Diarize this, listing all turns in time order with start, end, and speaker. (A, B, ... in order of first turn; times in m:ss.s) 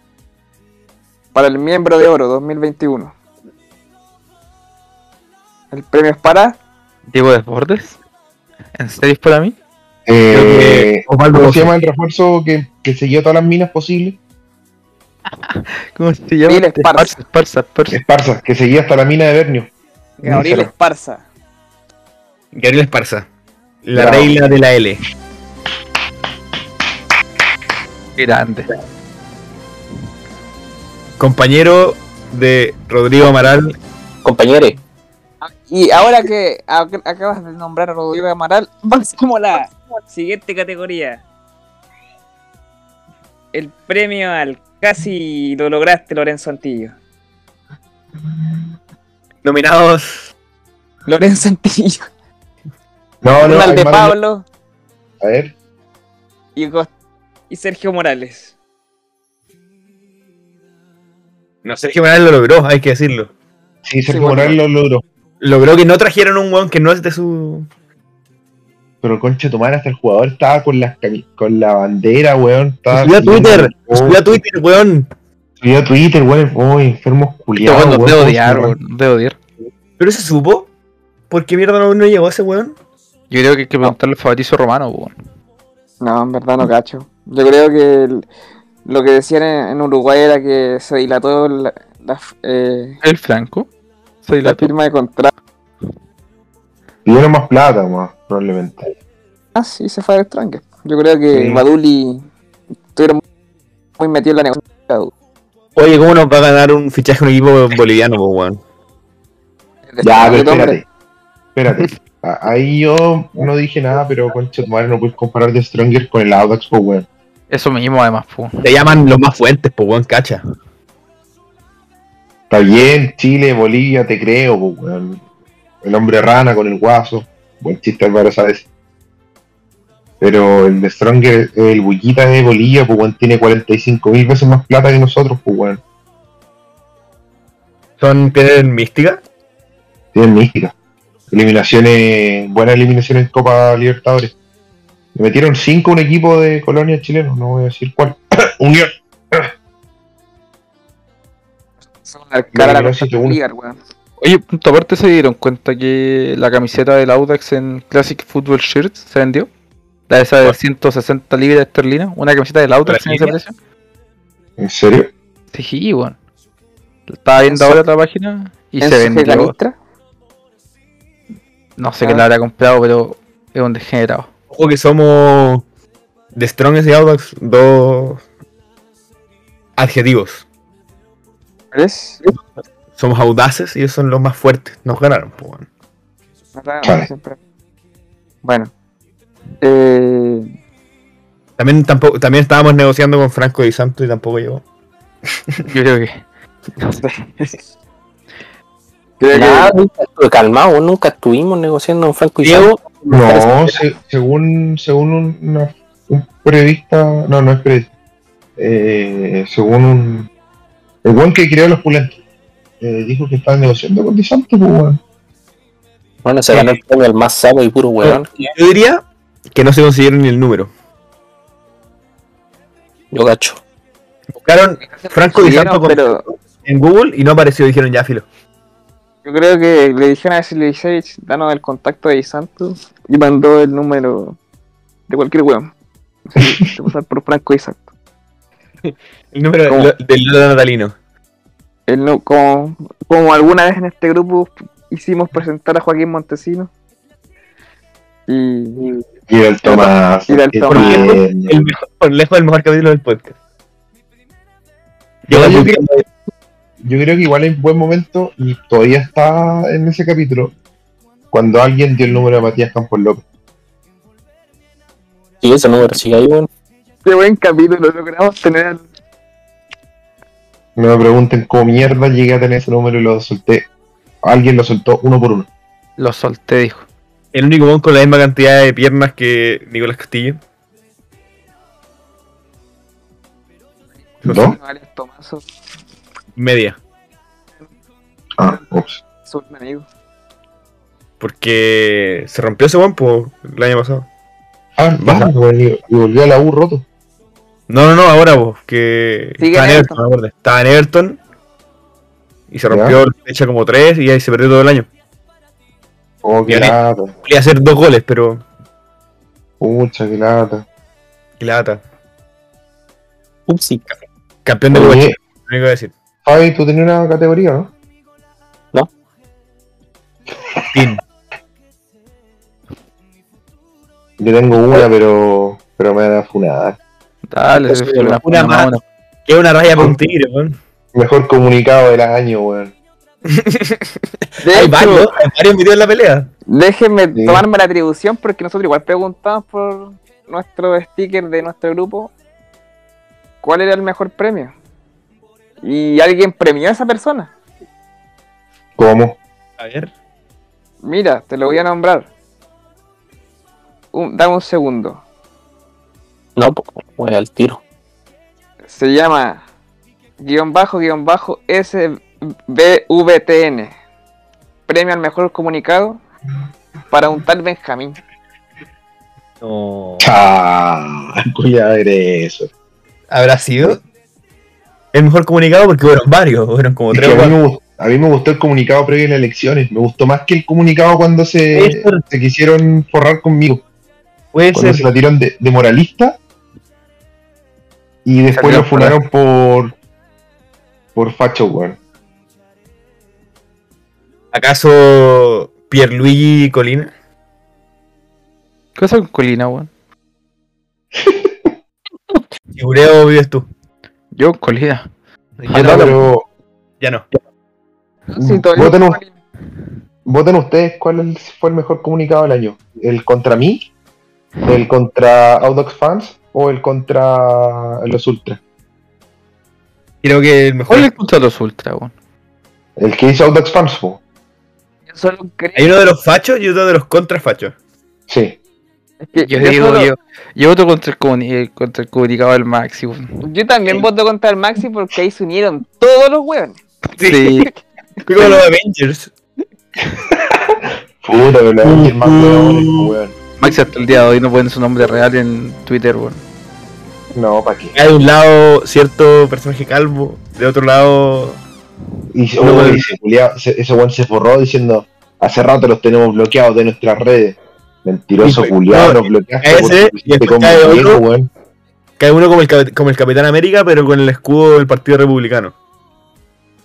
0:01.3-0:03.1 A
0:05.7-0:06.6 A
0:07.1-0:08.0 B
0:08.8-0:09.5 B
0:10.1-0:14.2 C
0:10.3-0:11.7 D
0:15.5-0:18.0 B
0:16.4-0:17.2 A
0:17.9-0:19.7 C
0:20.2-0:21.2 A
0:20.2-0:20.7 C
0:22.5-0:23.3 D
0:23.8-0:25.0 D
0:23.9-0:24.5 C
0:28.2-0:28.7 B
0:31.2-0:33.7 D
0:34.2-0:34.8 E
0:35.4-0:41.2 A
0:43.5-0:47.0 A
0:49.4-0:50.3 D
0:51.1-0:52.1 A
0:53.2-0:54.2 C
0:53.4-0:54.4 A
0:55.2-0:55.5 C
0:56.6-0:56.9 A
0:57.5-0:58.5 A
1:01.6-1:03.3 D
1:03.8-1:05.0 C
1:04.1-1:04.6 A
1:05.4-1:07.7 D
1:09.0-1:14.4 C
1:12.9-1:15.1 D
1:15.6-1:18.7 C
1:17.6-1:19.4 B
1:20.0-1:20.7 D
1:21.3-1:22.8 D
1:23.3-1:25.1 B
1:26.0-1:28.2 A
1:28.8-1:33.0 A
1:33.0-1:33.7 B
1:34.2-1:34.7 B
1:34.4-1:35.3 A
1:37.0-1:38.9 C
1:39.5-1:42.2 A
1:41.3-1:41.6 C
1:42.9-1:43.2 A
1:44.0-1:45.1 A
1:45.8-1:48.6 D
1:49.9-1:50.8 A
1:50.0-1:50.8 C
1:51.5-1:57.1 C
1:57.5-1:58.7 B
1:58.6-2:00.4 D
2:02.5-2:05.2 C
2:05.8-2:08.6 C
2:10.2-2:15.8 C
2:18.0-2:19.2 D
2:20.1-2:20.7 C
2:21.3-2:24.3 C
2:25.1-2:29.5 C
2:32.0-2:33.8 A
2:32.5-2:33.4 C
2:34.2-2:39.5 B
2:40.1-2:43.5 B
2:42.8-2:43.3 D
2:44.6-2:45.1 C
2:45.5-2:46.2 B
2:47.1-2:49.5 B
2:47.4-2:47.8 A
2:48.8-2:49.7 A
2:51.8-2:54.3 B
2:54.5-2:55.6 D
2:56.3-2:58.2 D
2:59.8-3:00.4 D
3:01.7-3:02.2 A
3:03.0-3:05.7 D
3:06.6-3:07.4 A
3:06.8-3:07.1 C
3:08.4-3:08.7 A
3:09.6-3:10.5 A
3:11.6-3:14.6 D
3:15.6-3:16.2 B
3:19.2-3:19.8 A
3:19.3-3:22.8 E
3:22.4-3:23.8 D
3:23.1-3:27.9 C
3:28.6-3:30.3 C
3:31.0-3:32.2 C
3:32.8-3:35.0 C
3:36.2-3:38.5 E
3:38.0-3:40.7 D
3:43.1-3:43.6 E
3:44.3-3:48.2 D
3:44.9-3:46.2 A
3:49.2-3:54.4 A
3:55.1-3:55.7 A
3:56.3-3:57.8 A
3:59.3-4:00.9 D
4:01.9-4:06.7 A
4:08.3-4:08.9 A
4:09.3-4:11.7 C
4:09.6-4:11.2 A
4:10.7-4:13.3 D
4:15.3-4:16.0 D
4:15.3-4:15.8 C
4:16.8-4:20.5 C
4:21.3-4:23.2 C
4:25.4-4:26.5 E
4:27.0-4:28.8 A
4:30.8-4:33.7 C
4:34.2-4:35.5 C
4:36.0-4:36.8 B
4:37.3-4:40.4 D
4:44.2-4:45.4 A
4:44.2-4:44.6 C
4:46.4-4:46.8 D
4:48.4-4:49.0 C
4:49.3-4:49.8 A
4:51.2-4:54.1 D
4:54.8-4:56.8 C
4:55.0-4:55.3 D
4:57.7-5:01.2 D
4:59.4-5:00.0 A
5:02.5-5:04.9 D
5:02.7-5:03.0 C
5:06.2-5:07.1 C
5:06.5-5:08.4 D
5:09.6-5:10.6 C
5:11.4-5:11.8 D
5:13.5-5:13.9 E
5:14.4-5:15.9 D
5:14.7-5:15.2 C
5:16.2-5:17.7 C
5:20.7-5:21.0 D
5:24.2-5:26.8 C
5:27.3-5:28.8 B
5:27.7-5:28.2 E
5:28.2-5:28.7 D
5:29.3-5:30.6 D
5:30.9-5:32.7 C
5:33.3-5:33.9 D
5:34.4-5:35.1 A
5:34.5-5:36.3 D
5:36.5-5:42.1 A
5:37.1-5:37.4 C
5:43.4-5:44.5 A
5:45.6-5:47.3 A
5:48.8-5:49.2 C
5:49.6-5:49.9 D
5:50.8-5:52.1 A
5:53.9-5:55.0 A
5:56.4-5:57.6 E
5:58.7-5:59.4 A
6:00.2-6:03.7 A
6:04.7-6:06.0 A
6:06.9-6:08.0 A
6:09.4-6:10.1 D
6:10.0-6:12.5 C
6:13.1-6:13.8 D
6:14.9-6:17.4 D
6:16.9-6:23.6 C
6:21.5-6:22.0 D
6:24.3-6:24.8 D
6:24.5-6:26.2 C
6:28.0-6:29.7 C
6:28.3-6:28.9 B
6:30.9-6:31.8 C
6:34.3-6:36.9 D
6:38.8-6:39.7 B
6:41.0-6:41.3 C
6:42.6-6:43.4 D
6:44.1-6:44.9 B
6:45.4-6:46.0 D
6:45.5-6:46.1 B
6:45.5-6:46.2 C
6:46.8-6:47.0 D
6:48.1-6:49.1 A
6:48.2-6:49.0 C
6:50.0-6:53.7 C
6:54.5-6:58.4 C
7:00.0-7:00.9 D
7:00.7-7:01.9 B
7:02.8-7:04.0 C
7:04.9-7:05.7 A
7:05.5-7:07.5 D
7:08.1-7:08.4 C
7:09.0-7:09.9 A
7:09.2-7:13.1 B
7:13.2-7:16.6 A
7:17.0-7:17.2 D
7:17.0-7:17.5 B
7:18.0-7:19.1 D
7:20.1-7:23.2 C
7:21.6-7:23.0 D
7:23.4-7:26.2 B
7:27.1-7:27.8 C
7:27.7-7:31.4 D
7:32.1-7:41.3 C
7:32.4-7:32.9 D
7:38.2-7:41.0 D
7:42.0-7:45.5 D